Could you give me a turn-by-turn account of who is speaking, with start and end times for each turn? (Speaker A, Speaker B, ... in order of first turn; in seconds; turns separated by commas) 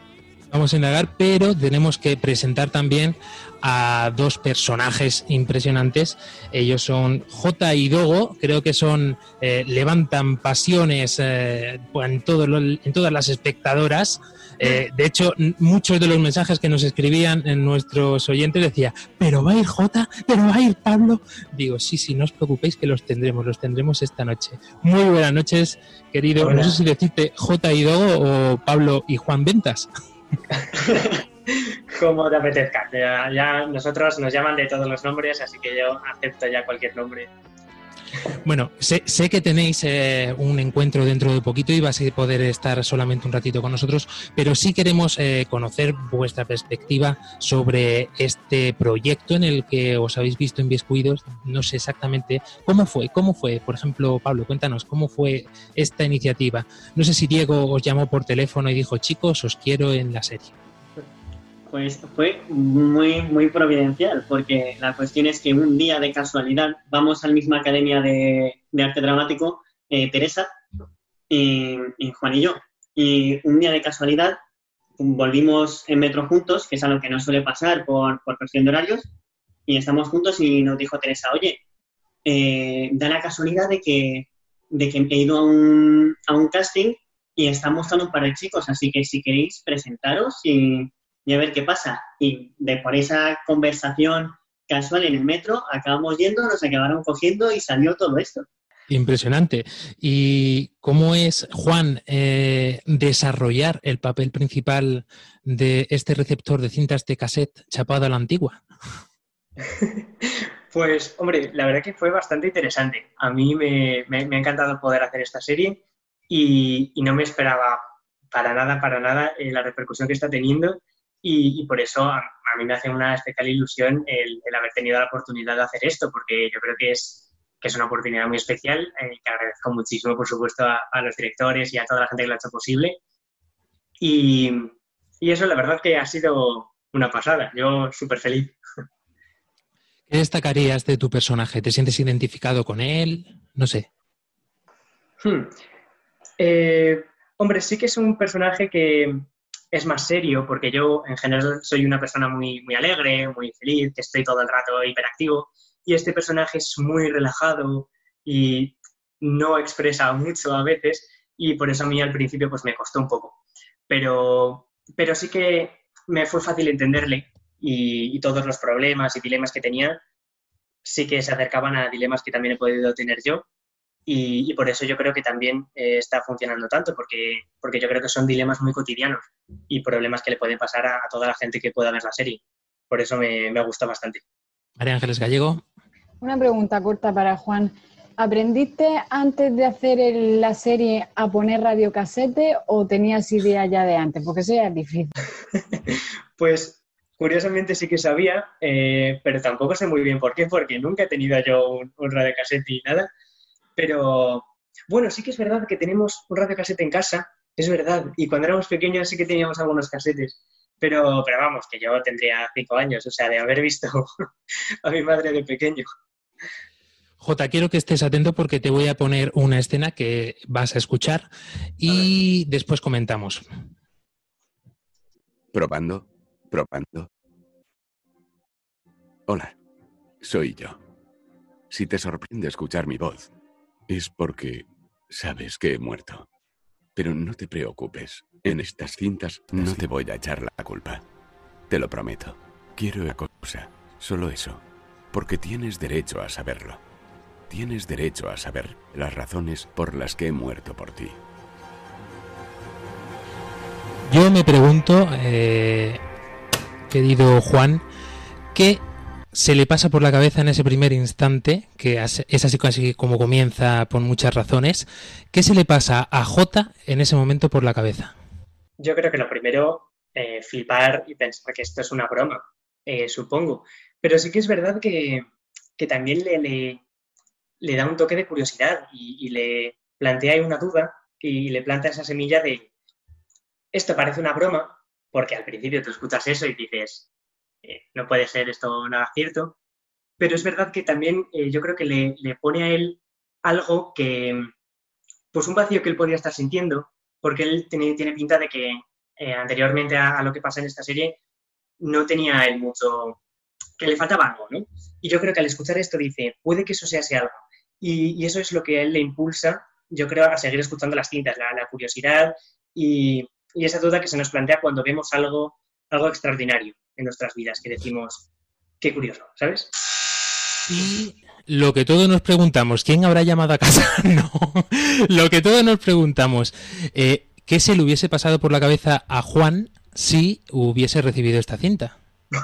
Speaker A: 0.5-29.9, Speaker B: 26.4-26.8, Speaker B: 30.7-37.3, Speaker A: 38.4-60.5, Speaker C: 61.7-70.5, Speaker C: 71.3-74.4, Speaker C: 75.0-79.1, Speaker C: 79.7-81.6, Speaker C: 82.2-98.5, Speaker A: 98.9-108.6, Speaker B: 109.7-133.0, Speaker B: 134.0-138.6, Speaker A: 140.1-143.9, Speaker B: 145.2-145.5, Speaker B: 146.4-163.4, Speaker B: 163.9-170.0, Speaker B: 170.8-173.4, Speaker B: 174.1-184.2, Speaker A: 184.8-185.6, Speaker D: 186.2-195.1, Speaker B: 195.7-203.1, Speaker B: 203.8-214.2, Speaker B: 214.8-215.9, Speaker A: 217.2-223.4, Speaker E: 225.5-227.1, Speaker E: 229.3-229.5, Speaker E: 230.2-230.8, Speaker E: 231.7-233.3, Speaker E: 233.9-236.2, Speaker E: 236.9-241.0, Speaker E: 241.7-246.8, Speaker E: 247.5-251.2, Speaker A: 254.1-256.0, Speaker A: 256.9-257.8, Speaker A: 258.5-258.8, Speaker A: 259.3-268.1, Speaker B: 268.8-275.2, Speaker B: 275.8-276.8, Speaker B: 277.6-282.7, Speaker B: 283.7-287.1, Speaker B: 287.6-289.6, Speaker B: 290.2-294.5, Speaker B: 295.3-301.2, Speaker B: 301.8-303.2, Speaker B: 303.8-318.2, Speaker B: 318.8-319.7, Speaker A: 320.7-331.9